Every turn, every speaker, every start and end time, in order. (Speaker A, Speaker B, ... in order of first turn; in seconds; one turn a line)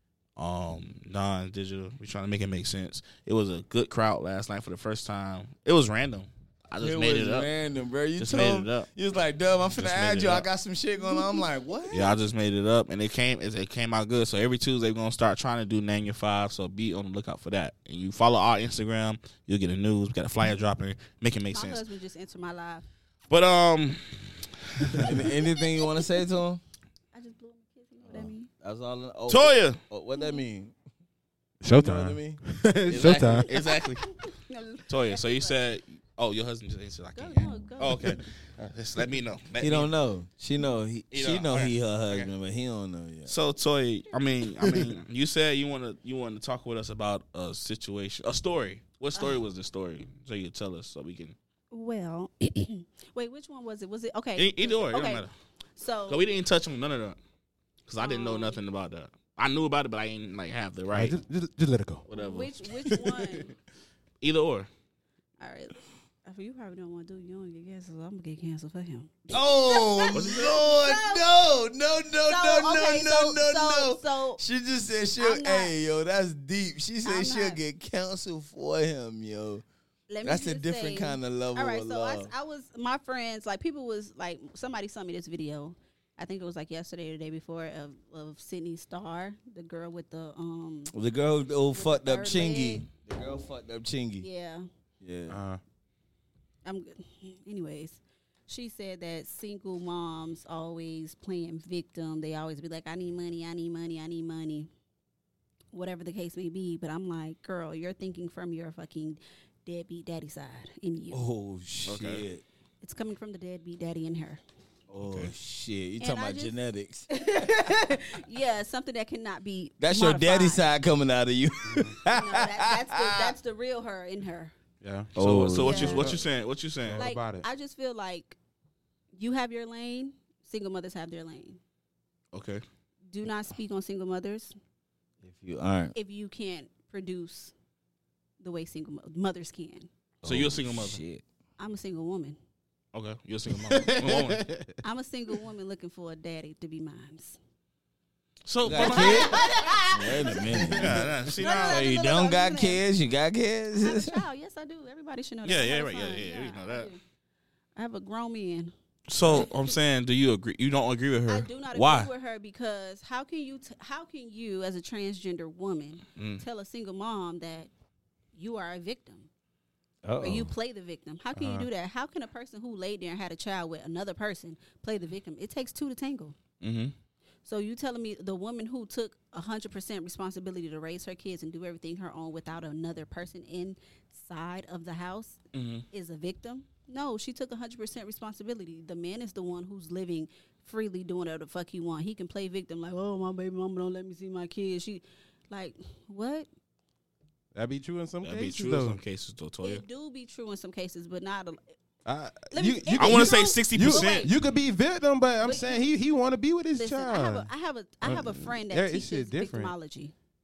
Speaker A: 0.4-7.5
Speaker B: 6.8-12.2
Speaker A: 8.2-8.9
Speaker A: 9.8-10.5
Speaker C: 11.0-11.4
Speaker A: 11.9-21.8
Speaker C: 21.5-22.8
Speaker A: 23.3-24.2
Speaker A: 24.8-25.1
Speaker B: 25.0-26.6
Speaker C: 25.3-26.2
Speaker C: 27.1-28.5
Speaker B: 28.1-30.7
Speaker A: 29.3-29.8
Speaker C: 30.1-30.4
Speaker D: 31.6-33.5
Speaker B: 31.7-33.5
Speaker A: 32.9-34.1
Speaker C: 33.5-35.6
Speaker A: 34.9-39.9
Speaker C: 37.1-38.1
Speaker B: 39.6-43.3
Speaker A: 41.1-42.3
Speaker A: 43.3-51.3
Speaker C: 49.1-49.4
Speaker C: 51.7-55.2
Speaker A: 54.4-55.3
Speaker C: 55.8-56.3
Speaker A: 56.1-57.2
Speaker A: 57.9-61.2
Speaker C: 58.0-58.6
Speaker D: 60.9-62.1
Speaker A: 62.1-62.5
Speaker C: 62.1-63.5
Speaker D: 62.8-63.5
Speaker A: 64.2-64.7
Speaker C: 65.4-71.2
Speaker B: 69.3-79.6
Speaker A: 70.1-70.6
Speaker C: 72.3-74.4
Speaker C: 75.2-75.7
Speaker C: 77.0-77.6
Speaker C: 80.1-90.9
Speaker B: 80.2-82.3
Speaker B: 90.9-94.2
Speaker C: 91.7-92.8
Speaker C: 94.2-94.7
Speaker B: 95.0-95.4
Speaker D: 95.3-95.6
Speaker C: 96.6-104.7
Speaker C: 105.7-111.2
Speaker B: 111.1-112.4
Speaker A: 111.8-112.2
Speaker C: 112.8-114.4
Speaker B: 114.9-117.1
Speaker C: 116.0-116.5
Speaker C: 117.1-120.6
Speaker B: 119.8-123.3
Speaker D: 121.7-121.9
Speaker C: 122.1-124.5
Speaker D: 124.8-125.1
Speaker B: 125.1-126.2
Speaker A: 125.2-127.0
Speaker C: 125.6-126.1
Speaker D: 125.8-126.2
Speaker D: 126.8-127.4
Speaker C: 127.0-128.4
Speaker C: 129.2-131.6
Speaker A: 132.3-132.6
Speaker C: 133.1-134.5
Speaker B: 135.2-135.9
Speaker C: 135.9-137.5
Speaker C: 138.4-139.9
Speaker B: 140.2-141.2
Speaker A: 140.2-141.0
Speaker C: 141.6-142.4
Speaker A: 142.9-144.4
Speaker D: 143.5-144.7
Speaker C: 144.8-147.4
Speaker A: 148.4-149.4
Speaker B: 148.6-154.2
Speaker C: 148.7-150.8
Speaker A: 150.6-151.8
Speaker C: 151.4-152.8
Speaker C: 153.8-157.0
Speaker A: 155.4-156.9
Speaker C: 157.8-158.7
Speaker A: 159.1-162.1
Speaker C: 159.2-159.7
Speaker C: 161.3-167.7
Speaker A: 166.2-166.4
Speaker C: 168.3-169.3
Speaker B: 170.0-170.5
Speaker C: 170.2-176.3
Speaker D: 171.4-171.7
Speaker A: 176.6-176.9
Speaker C: 177.4-185.4
Speaker A: 185.5-185.8
Speaker C: 185.9-196.5
Speaker D: 197.5-199.0
Speaker A: 198.2-199.8
Speaker C: 199.6-201.7
Speaker D: 202.1-207.5
Speaker C: 202.5-204.3
Speaker A: 203.0-204.3
Speaker C: 205.4-205.9
Speaker C: 206.7-210.1
Speaker D: 208.0-209.7